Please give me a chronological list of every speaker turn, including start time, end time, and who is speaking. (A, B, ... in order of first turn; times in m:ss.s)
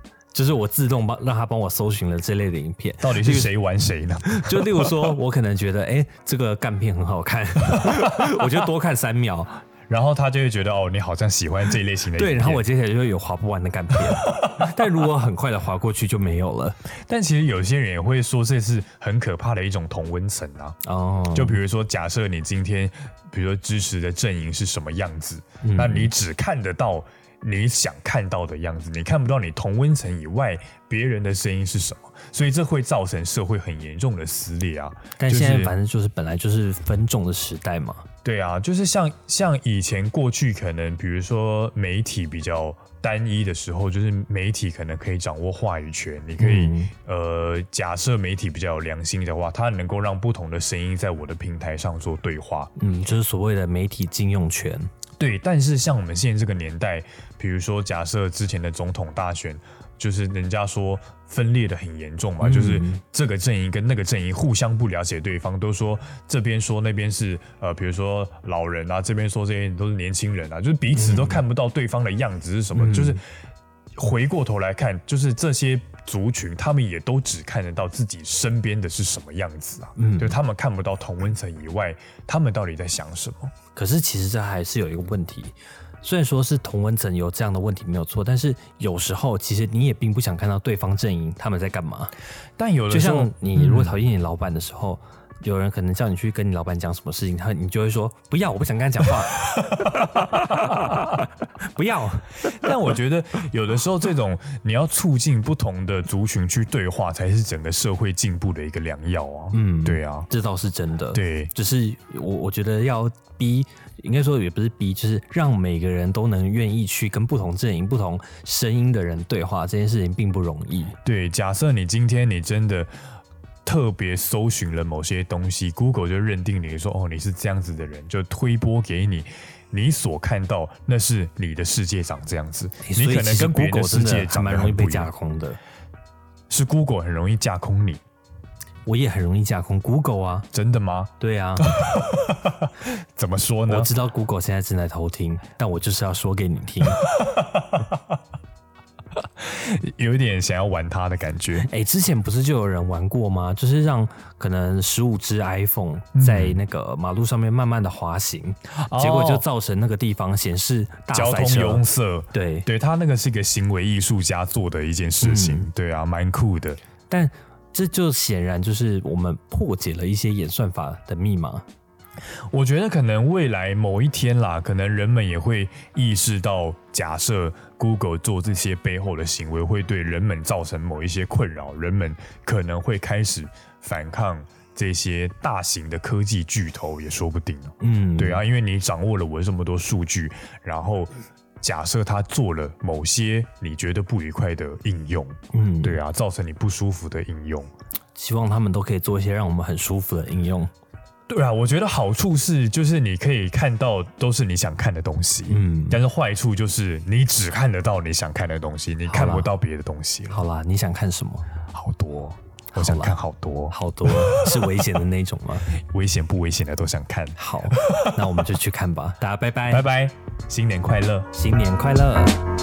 0:00.3-0:03.5 A
0:03.0-0:05.2 B
0:04.2-0:09.6 A
0:07.8-0:08.4 B
0:09.9-0:12.6 B
0:12.2-0:16.8 A
0:13.9-0:14.8 B
0:17.1-0:20.8 B
0:20.8-0:21.6 A
0:21.3-0:35.7 B
0:25.6-0:26.1 A
0:35.2-0:38.0 A
0:38.2-0:52.7 B
0:46.4-0:46.9 A
0:52.8-0:54.9 A
0:55.2-1:13.2 B
1:02.4-1:03.0 A
1:10.9-1:11.4 A
1:12.7-1:13.2 A
1:14.0-1:23.5 B
1:20.0-1:20.4 A
1:23.7-1:32.1 A
1:32.6-1:34.0 B
1:32.9-1:42.7 A
1:40.6-1:40.9 B
1:42.4-1:50.3 B
1:49.5-2:00.9 A
1:51.1-1:51.5 B
2:01.0-2:02.9 B
2:03.6-2:15.1 B
2:12.8-2:15.6 A
2:16.5-2:18.0 B
2:18.8-2:20.5 A
2:20.5-2:21.1 B
2:21.2-2:21.7 A
2:21.6-2:23.9 B
2:23.7-2:27.0 A
2:27.0-2:27.9 B
2:29.4-2:31.7 B
2:31.6-2:42.7 A
2:36.1-2:36.6 B
2:38.7-2:39.4 B
2:41.1-2:46.8 B
2:45.2-2:45.7 A
2:47.1-2:51.6 A
2:52.5-3:17.7 B
3:07.8-3:08.4 A
3:15.5-3:16.0 A
3:18.1-3:20.7 A
3:21.3-3:30.4 B
3:25.5-3:26.0 A
3:29.1-3:29.5 A
3:30.3-3:31.4 A
3:31.7-3:34.8 B
3:32.7-3:33.2 A
3:33.7-3:35.7 A
3:35.8-3:38.2 B
3:37.4-3:39.8 A
3:39.7-3:41.3 B
3:41.3-3:42.4 A